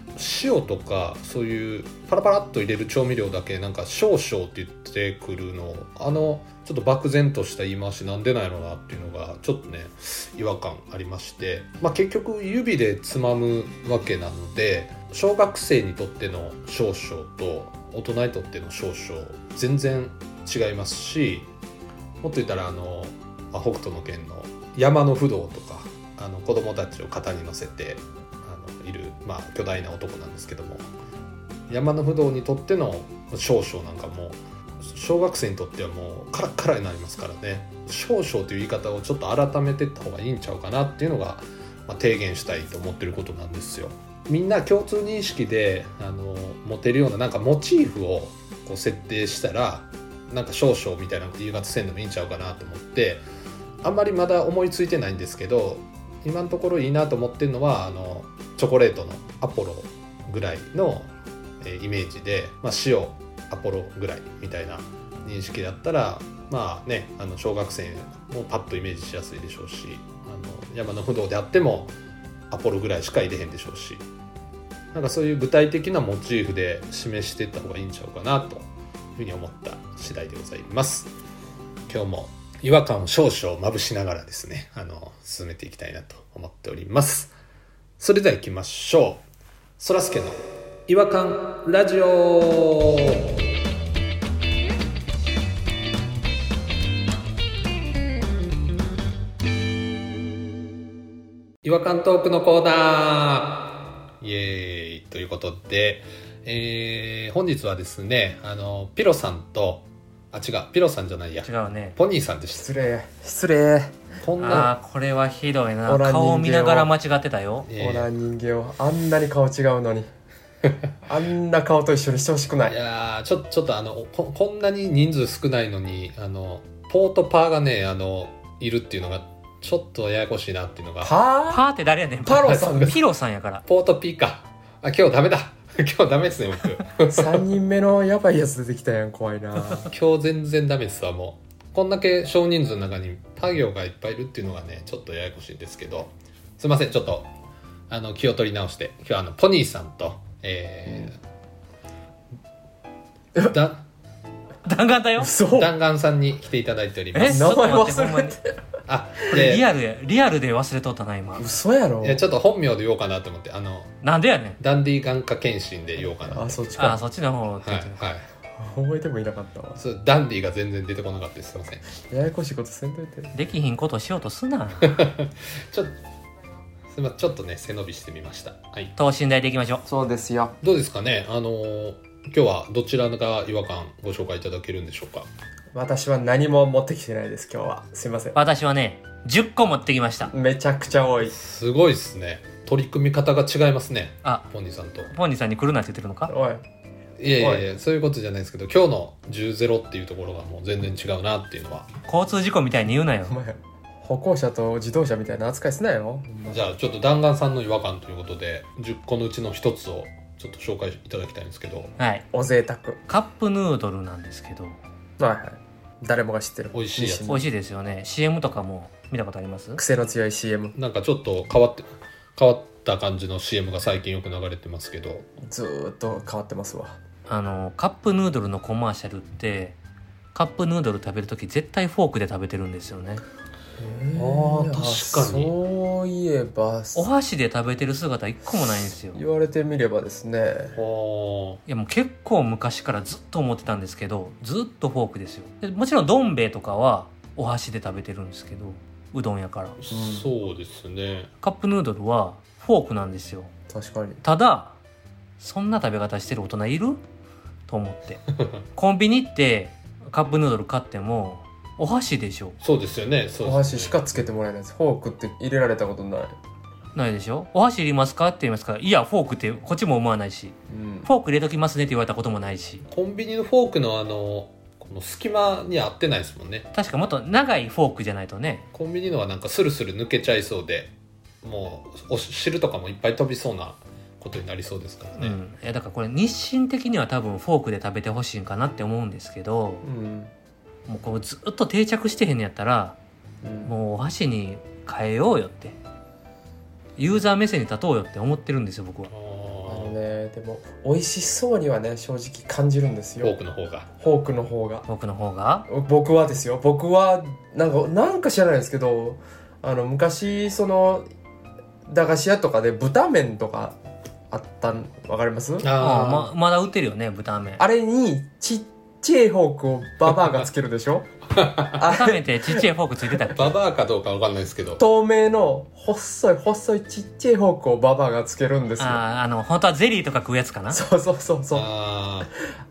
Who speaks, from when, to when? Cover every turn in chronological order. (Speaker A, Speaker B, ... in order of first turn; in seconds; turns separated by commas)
Speaker A: 0.2-21.5, Speaker A: 22.2-30.9, Speaker A: 31.7-53.2, Speaker A: 53.8-61.1, Speaker A: 61.6-71.9, Speaker A: 72.5-74.0, Speaker A: 74.9-78.7, Speaker A: 79.2-81.1, Speaker A: 81.9-87.3, Speaker A: 88.0-89.2, Speaker A: 89.8-93.3, Speaker A: 101.6-112.7, Speaker B: 111.4-112.0, Speaker C: 112.5-114.0, Speaker A: 114.2-114.7, Speaker B: 114.4-117.7, Speaker C: 115.9-116.9, Speaker A: 117.7-118.1, Speaker C: 117.8-120.1, Speaker C: 121.1-122.8, Speaker A: 122.7-131.1, Speaker C: 131.0-131.7, Speaker B: 131.5-133.6, Speaker C: 132.2-133.0, Speaker A: 132.4-132.9, Speaker A: 133.7-137.4, Speaker C: 137.1-139.9, Speaker A: 139.8-147.3, Speaker A: 147.9-151.2, Speaker A: 153.5-153.9, Speaker B: 154.7-155.3, Speaker C: 155.2-155.7, Speaker A: 155.5-157.6, Speaker B: 157.1-158.3, Speaker C: 157.2-158.6, Speaker A: 158.9-159.7, Speaker B: 159.3-161.5, Speaker C: 161.4-162.2, Speaker A: 162.0-163.9, Speaker B: 164.0-164.6, Speaker A: 164.6-166.7, Speaker C: 166.0-167.0, Speaker B: 166.8-168.0, Speaker A: 167.6-168.2, Speaker C: 168.6-169.8, Speaker A: 169.8-171.8, Speaker C: 172.1-173.3, Speaker B: 173.3-175.0, Speaker A: 174.8-175.9, Speaker A: 176.9-178.9, Speaker B: 179.0-179.8, Speaker C: 179.8-180.6, Speaker A: 180.6-185.3, Speaker C: 185.7-188.4, Speaker B: 188.3-190.3, Speaker C: 190.3-191.3, Speaker A: 191.3-195.1, Speaker B: 195.1-196.3, Speaker C: 196.3-196.6, Speaker A: 197.2-201.9, Speaker C: 197.3-197.7, Speaker B: 202.1-203.3, Speaker C: 203.2-206.7, Speaker A: 206.5-211.9, Speaker B: 212.0-212.2, Speaker C: 212.3-213.0, Speaker B: 213.1-214.8, Speaker C: 215.2-217.5, Speaker A: 216.7-217.4, Speaker B: 217.3-219.8, Speaker C: 219.8-220.8, Speaker A: 220.8-225.3, Speaker C: 225.4-226.9, Speaker B: 227.3-229.8, Speaker B: 230.3-233.2, Speaker C: 233.8-237.1, Speaker A: 234.2-235.5, Speaker B: 236.9-239.2, Speaker C: 239.1-240.8, Speaker A: 240.8-241.6, Speaker B: 241.7-249.8, Speaker A: 249.8-251.3, Speaker C: 249.9-250.3, Speaker B: 251.4-253.5, Speaker C: 253.7-254.2, Speaker B: 254.2-254.8, Speaker B: 255.4-257.0, Speaker B: 257.7-258.2, Speaker B: 258.8-262.6, Speaker A: 262.6-264.1, Speaker C: 263.4-266.3, Speaker B: 266.9-272.9, Speaker C: 270.7-271.1, Speaker A: 272.9-276.7, Speaker B: 276.7-278.6, Speaker A: 278.7-285.4, Speaker B: 285.2-289.8, Speaker C: 289.8-290.3, Speaker B: 290.9-293.0, Speaker C: 293.4-293.7, Speaker B: 293.6-295.8, Speaker B: 297.0-299.1, Speaker A: 299.1-299.9, Speaker C: 299.6-303.4, Speaker A: 303.2-303.9, Speaker C: 304.0-304.9, Speaker B: 304.9-305.7, Speaker C: 305.7-311.1, Speaker C: 311.9-313.8, Speaker C: 314.3-315.7, Speaker A: 315.6-316.3, Speaker B: 315.8-317.6, Speaker C: 317.6-321.1, Speaker A: 321.4-321.8, Speaker C: 321.7-322.6, Speaker B: 321.8-323.5, Speaker A: 323.3-324.8, Speaker C: 324.8-329.0, Speaker B: 328.8-330.8, Speaker C: 330.7-331.7, Speaker A: 331.5-332.3